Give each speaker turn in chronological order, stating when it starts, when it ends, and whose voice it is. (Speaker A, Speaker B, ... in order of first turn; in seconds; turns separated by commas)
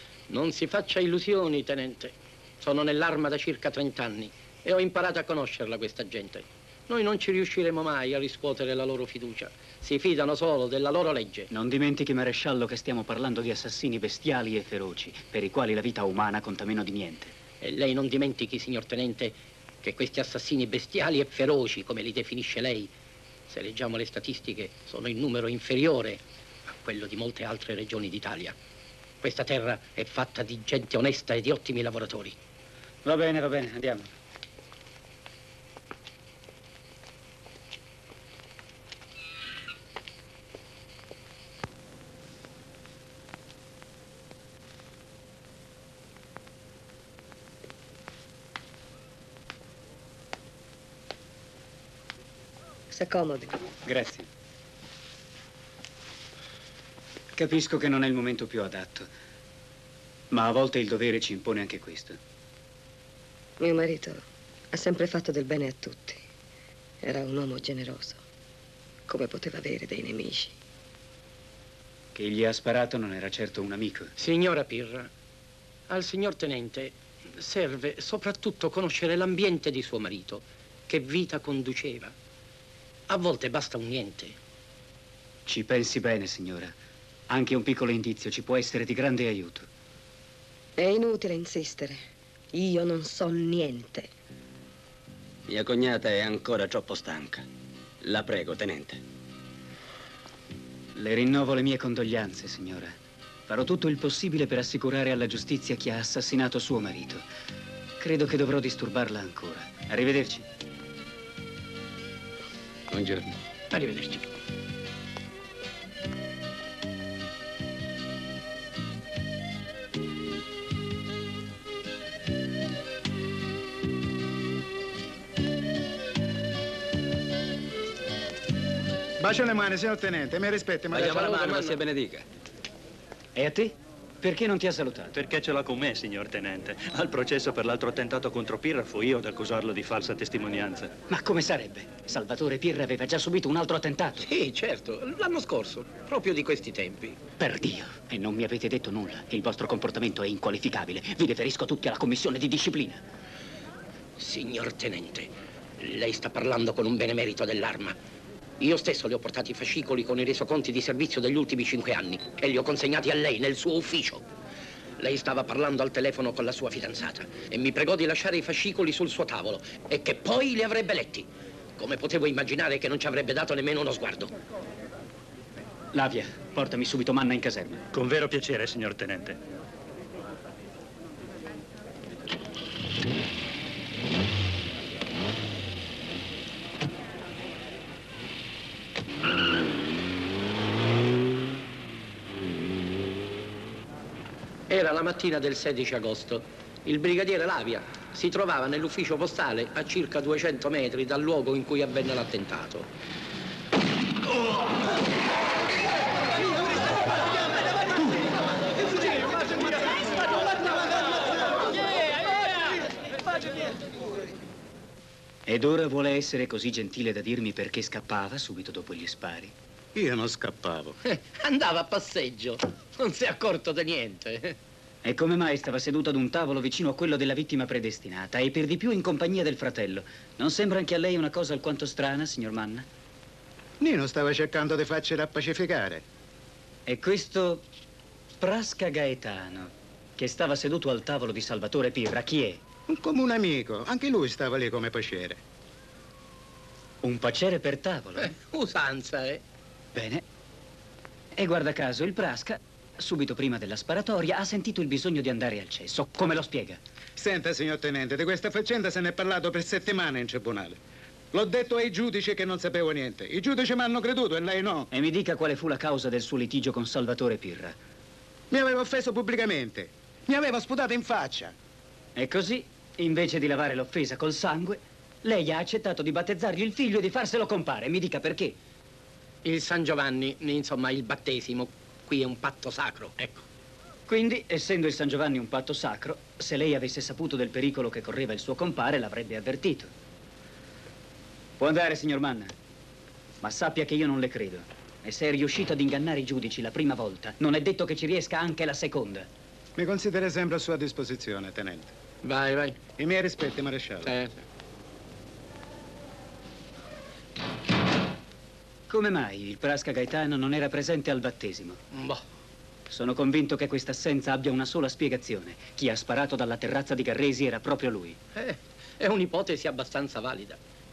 Speaker A: 0.3-11.5, Speaker B: 11.5-17.3, Speaker A: 17.6-22.9, Speaker A: 23.5-28.6, Speaker A: 29.2-32.4, Speaker B: 33.0-34.1, Speaker C: 52.9-53.6, Speaker B: 53.9-54.3, Speaker B: 57.4-59.1, Speaker B: 60.3-62.2, Speaker C: 63.6-66.2, Speaker C: 67.0-68.2, Speaker C: 69.1-70.5, Speaker B: 72.2-74.1, Speaker A: 74.2-75.1, Speaker A: 75.9-82.1, Speaker A: 83.1-84.4, Speaker B: 85.5-86.8, Speaker B: 87.3-89.7, Speaker C: 90.8-94.1, Speaker D: 95.5-97.5, Speaker D: 98.0-99.0, Speaker B: 101.0-103.0, Speaker B: 103.5-107.2, Speaker B: 108.0-110.5, Speaker A: 113.7-114.2, Speaker E: 129.2-131.4, Speaker D: 130.9-132.2, Speaker B: 133.4-135.2, Speaker F: 135.1-140.9, Speaker B: 141.1-144.3, Speaker A: 144.2-147.2, Speaker B: 147.4-153.0, Speaker A: 154.2-158.0, Speaker A: 158.6-164.2, Speaker A: 165.0-174.3, Speaker B: 175.9-177.8, Speaker F: 177.9-179.4, Speaker A: 194.7-202.9, Speaker B: 215.5-219.5, Speaker E: 219.9-220.9, Speaker A: 221.1-224.6, Speaker B: 225.0-232.9, Speaker E: 233.8-236.0, Speaker B: 236.9-237.6, Speaker B: 238.4-242.6, Speaker E: 242.9-245.4, Speaker B: 247.0-248.3, Speaker A: 248.3-249.4, Speaker B: 249.9-250.2, Speaker B: 251.4-256.8, Speaker E: 257.2-260.8, Speaker E: 261.3-264.9, Speaker B: 264.9-267.8, Speaker E: 268.5-271.6, Speaker B: 272.2-278.6, Speaker A: 279.4-283.4, Speaker B: 284.1-289.9, Speaker B: 291.6-292.5, Speaker B: 293.4-299.3, Speaker E: 299.8-301.9, Speaker A: 302.2-302.8, Speaker E: 303.0-304.1, Speaker A: 304.1-304.4, Speaker B: 308.9-311.8, Speaker A: 311.9-312.2, Speaker B: 312.9-318.2, Speaker A: 318.4-320.6